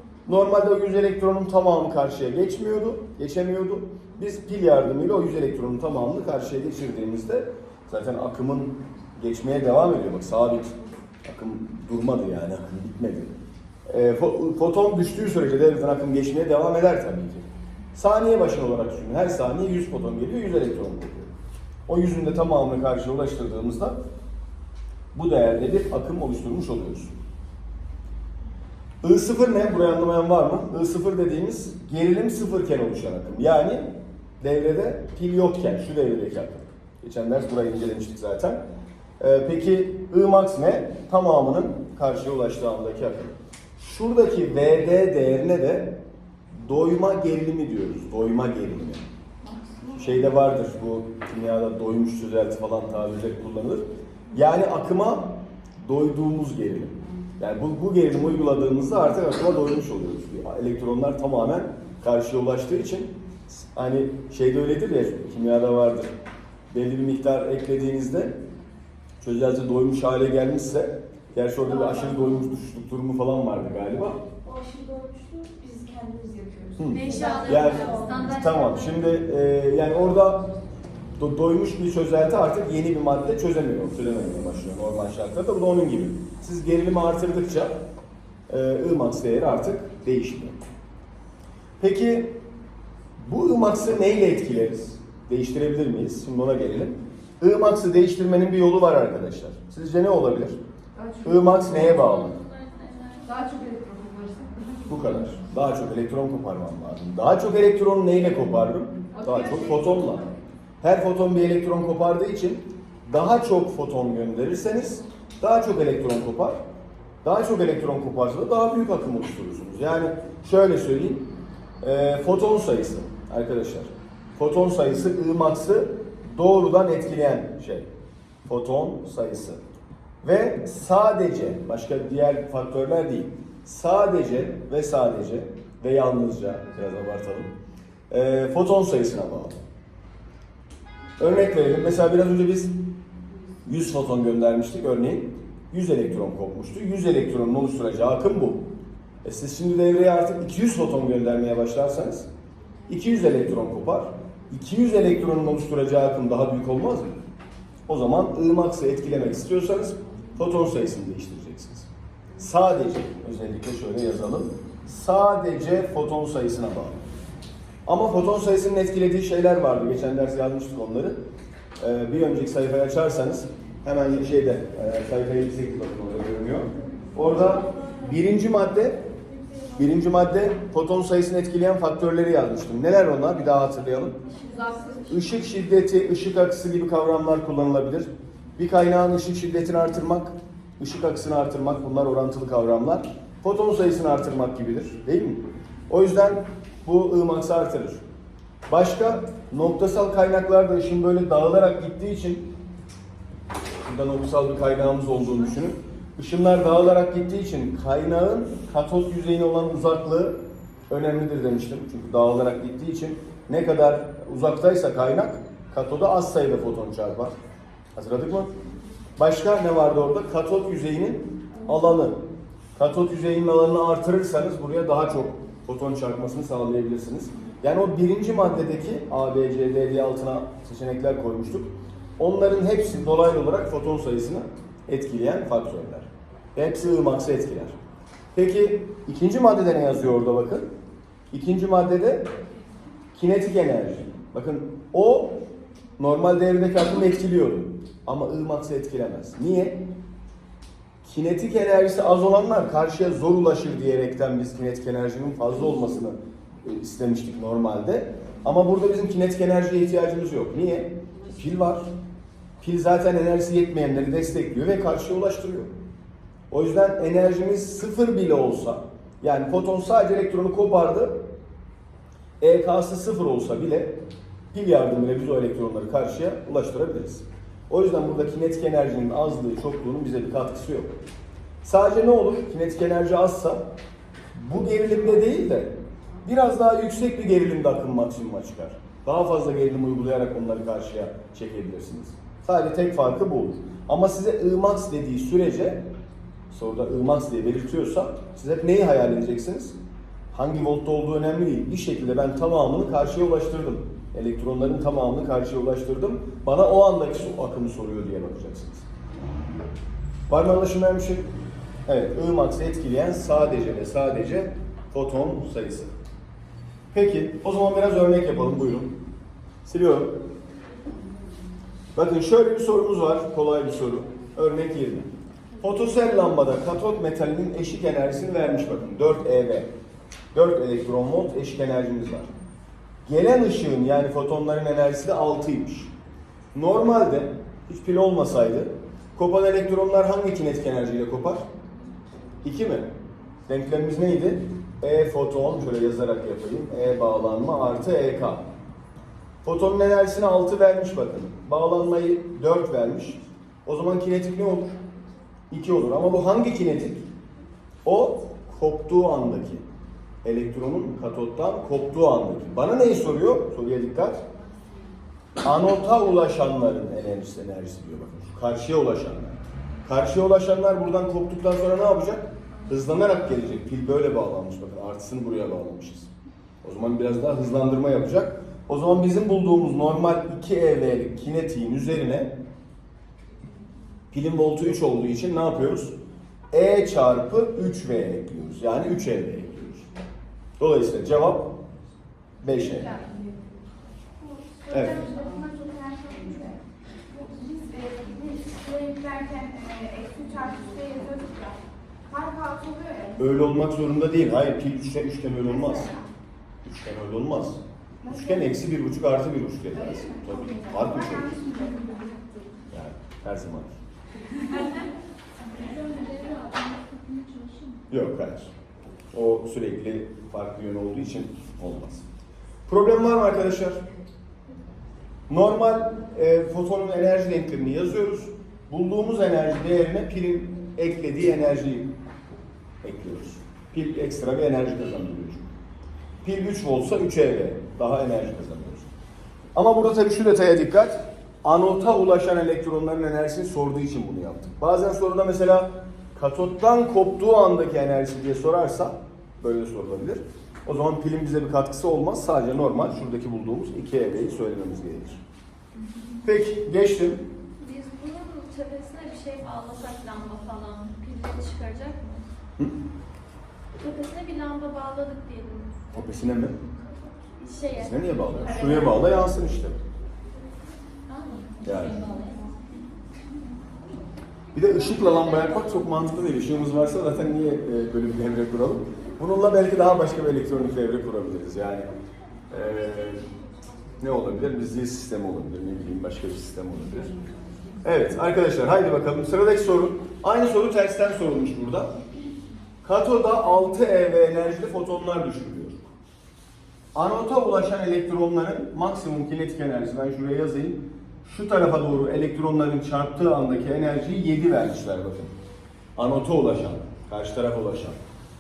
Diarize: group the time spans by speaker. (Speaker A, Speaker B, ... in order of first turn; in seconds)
Speaker A: 0.3-21.3, 21.9-24.0, 25.1-27.1, 29.0-38.6, 39.2-46.0, 46.6-49.0, 49.9-66.1, 66.7-68.4, 69.2-74.2, 76.8-80.5, 81.2-87.8, 88.5-90.6, 91.8-92.4, 93.2-100.6, 101.2-102.4, 104.9-116.6, 117.2-121.3, 121.8-127.9, 128.5-129.6, 130.2-137.5, 138.1-139.6, 141.2-142.8, 143.7-148.6, 149.2-152.3, 152.9-157.2, 157.9-167.0, 167.9-171.2, 171.8-179.0, 179.8-184.2, 185.1-198.0, 198.7-202.5, 203.8-217.3, 217.9-218.5, 219.2-222.2, 222.8-237.8, 238.3-240.7, 241.3-242.3, 243.2-245.4, 246.0-249.8, 251.0-261.9, 262.6-265.7, 266.5-271.2, 272.4-274.0, 274.5-280.9, 281.6-283.6, 284.4-295.9, 296.5-299.8, 300.3-308.9, 310.3-311.3, 311.9-315.9, 316.9-319.0, 319.6-320.2, 321.9-325.1, 325.6-329.7, 330.3-332.3, 333.1-335.9, 336.5-341.4, 342.4-342.9, 343.5-348.4, 349.4-354.8, 355.5-357.1, 357.9-359.6, 360.2-364.2, 365.4-376.1, 376.6-382.4, 384.1-385.9, 386.5-389.9, 390.6-391.6, 392.4-393.0, 394.7-395.0, 403.2-405.9, 406.6-411.3, 412.7-413.8, 417.9-418.5, 419.1-422.1, 422.7-423.8, 425.3-431.9, 432.8-435.4, 436.2-438.9, 439.6-455.2, 456.2-457.2, 465.9-466.6, 467.8-469.8, 471.6-472.0, 474.5-481.9, 482.5-483.2, 484.0-487.1, 487.8-491.9, 492.8-495.8, 496.9-505.3, 506.0-508.0
Speaker B: 49.4-50.2, 71.8-72.2, 74.5-78.5, 101.0-101.9, 103.3-104.8, 109.1-110.2, 184.3-185.2, 364.4-364.8, 392.9-393.2, 394.2-403.4, 405.5-406.1, 408.0-408.6, 410.0-412.6, 415.4-417.8
Speaker C: 76.9-78.9, 101.7-103.4, 184.3-184.6, 457.6-462.2, 463.8-465.9, 467.4-468.9, 471.1-472.3